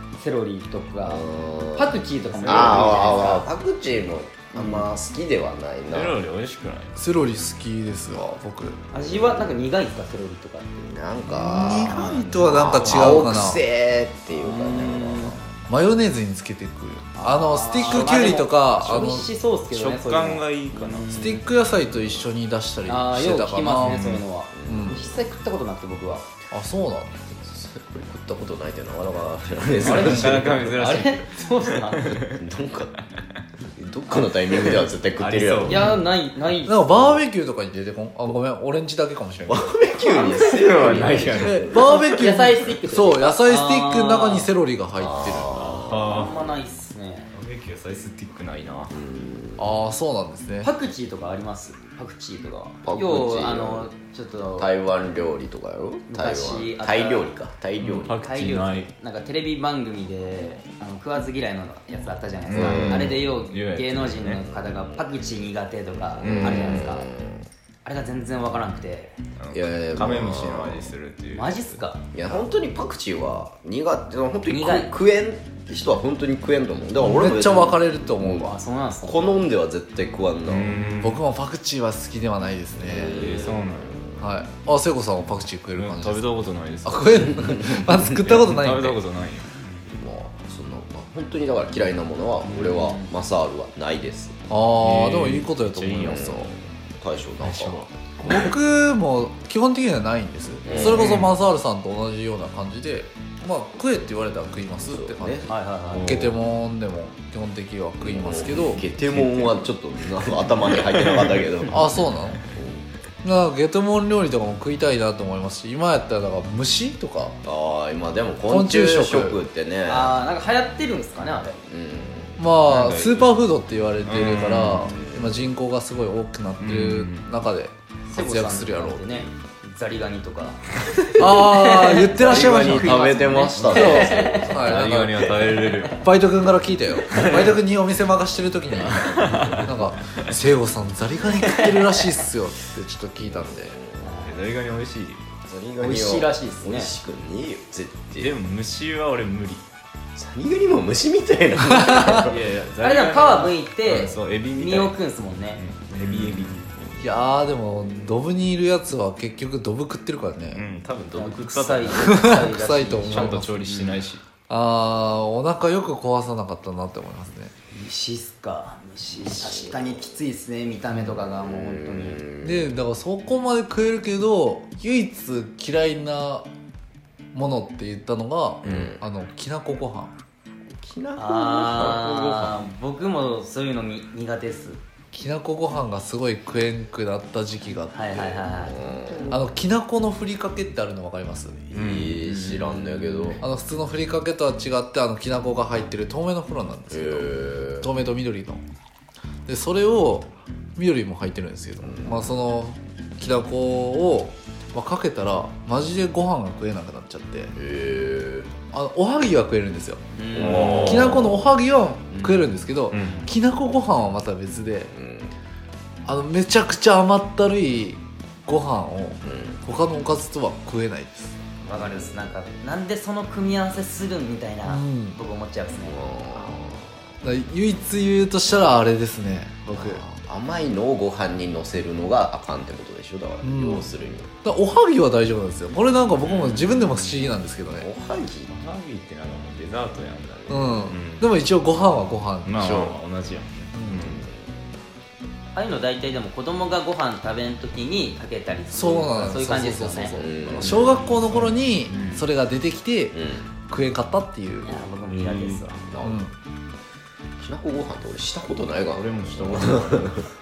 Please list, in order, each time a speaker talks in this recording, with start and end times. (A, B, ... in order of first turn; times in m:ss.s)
0:00.2-0:03.5 A
0:01.0-0:06.2 B
0:02.4-0:03.4 C
0:04.6-0:04.8 A
0:05.9-0:07.0 C
0:07.0-0:08.8 D
0:08.9-0:10.9 A
0:09.0-0:09.6 B
0:10.8-0:15.4 B
0:11.2-0:13.6 D
0:12.0-0:13.2 C
0:14.3-0:15.4 A
0:15.7-0:19.3 D
0:17.2-0:21.4 A
0:19.7-0:21.4 C
0:21.1-0:24.1 D
0:22.8-0:26.2 A
0:23.8-0:24.2 C
0:24.5-0:25.2 B
0:24.6-0:25.1 D
0:26.5-0:27.1 D
0:27.4-0:30.7 B
0:29.8-0:32.3 C
0:29.8-0:32.0 A
0:30.0-0:30.4 D
0:32.2-0:33.0 B
0:33.8-0:35.8 B
0:35.2-0:35.9 C
0:35.6-0:37.2 A
0:36.6-0:39.7 D
0:39.5-0:41.8 B
0:40.0-0:41.2 A
0:40.4-0:41.7 C
0:41.3-0:45.6 D
0:41.8-0:44.5 A
0:44.9-0:46.1 B
0:45.4-0:46.6 C
0:46.0-0:47.3 A
0:47.3-0:48.9 C
0:48.9-0:49.6 B
0:49.6-0:50.7 D
0:50.6-0:54.7 A
0:52.8-0:53.9 B
0:54.6-0:58.2 B
0:56.1-0:57.3 A
0:57.8-0:58.9 C
0:58.2-1:07.1 A
1:02.4-1:04.4 C
1:02.5-1:03.2 B
1:04.5-1:05.0 B
1:06.2-1:06.8 C
1:06.2-1:07.4 B
1:07.8-1:09.2 A
1:09.4-1:11.8 C
1:09.5-1:11.0 B
1:11.3-1:12.0 A
1:12.1-1:20.8 B
1:14.5-1:14.9 A
1:17.0-1:18.5 D
1:18.3-1:19.3 A
1:20.4-1:21.2 C
1:21.0-1:23.2 D
1:22.8-1:24.2 B
1:22.9-1:24.0 C
1:24.2-1:26.3 D
1:25.7-1:27.4 C
1:26.8-1:29.0 D
1:27.3-1:28.0 B
1:28.0-1:29.8 C
1:29.9-1:34.4 B
1:32.4-1:33.1 A
1:34.5-1:36.5 D
1:34.8-1:36.4 C
1:36.0-1:38.5 B
1:37.4-1:38.5 C
1:38.2-1:45.5 D
1:40.6-1:41.1 B
1:40.8-1:41.3 C
1:44.8-1:45.5 B
1:45.4-1:46.1 A
1:45.9-1:46.4 C
1:46.0-1:48.8 D
1:48.0-1:51.8 B
1:49.0-1:49.6 C
1:50.5-1:51.3 C
1:51.7-1:52.4 D
1:52.5-1:52.9 B
1:53.2-1:57.4 D
1:57.4-2:00.2 B
1:58.5-1:59.4 D
1:59.8-2:01.6 A
2:01.6-2:02.4 B
2:02.4-2:09.2 D
2:02.6-2:03.3 C
2:04.0-2:04.9 C
2:04.8-2:05.5 B
2:06.6-2:07.3 C
2:08.1-2:10.6 A
2:11.2-2:15.2 D
2:11.3-2:14.9 A
2:12.1-2:14.7 B
2:14.4-2:16.0 C
2:15.9-2:23.8 D
2:17.1-2:17.5 C
2:18.8-2:19.7 C
2:21.4-2:22.0 A
2:23.2-2:24.2 B
2:24.0-2:24.4 A
2:24.2-2:25.2 C
2:25.4-2:28.3 B
2:25.8-2:26.9 A
2:28.1-2:29.6 C
2:30.2-2:32.4 B
2:32.2-2:34.9 C
2:32.8-2:36.7 A
2:35.6-2:37.1 C
2:37.0-2:40.7 D
2:40.5-2:42.1 C
2:41.1-2:44.0 A
2:42.0-2:43.6 D
2:43.1-2:44.2 C
2:44.5-2:47.5 D
2:47.7-2:52.2 A
2:49.2-2:49.9 B
2:51.2-2:52.7 B
2:52.4-2:56.5 D
2:57.3-3:00.2 D
2:58.6-2:59.0 B
3:00.8-3:02.6 B
3:01.2-3:04.8 A
3:05.1-3:08.2 D
3:07.9-3:08.8 A
3:08.1-3:09.3 B
3:09.3-3:11.7 D
3:11.7-3:12.2 C
3:11.7-3:13.4 B
3:12.2-3:13.4 A
3:13.4-3:18.6 D
3:16.9-3:17.9 B
3:19.4-3:27.5 D
3:21.8-3:22.4 B
3:27.6-3:28.6 B
3:28.7-3:30.0 D
3:30.2-3:31.0 A
3:30.3-3:31.4 B
3:30.4-3:31.1 C
3:30.8-3:34.9 D
3:32.1-3:32.5 A
3:32.9-3:33.3 C
3:34.9-3:35.3 B
3:36.0-3:41.3 D
3:39.2-3:39.6 B
3:41.6-3:46.5 A
3:41.7-3:42.1 B
3:44.6-3:45.2 D
3:45.8-3:47.0 B
3:47.2-3:50.0 D
3:49.7-3:54.3 B
3:53.4-3:53.9 D
3:54.4-3:57.9 D
3:56.2-3:56.9 C
3:57.7-3:58.5 B
3:58.5-4:04.2 C
4:00.5-4:03.0 D
4:03.7-4:04.3 D
4:04.3-4:04.6 B
4:05.5-4:12.2 A
4:08.7-4:13.2 D
4:10.2-4:11.1 B
4:13.1-4:13.5 B
4:13.7-4:14.9 D
4:14.6-4:15.8 A
4:15.1-4:15.6 C
4:15.8-4:16.3 B
4:16.0-4:16.3 D
4:17.4-4:20.2 B
4:18.9-4:20.3 C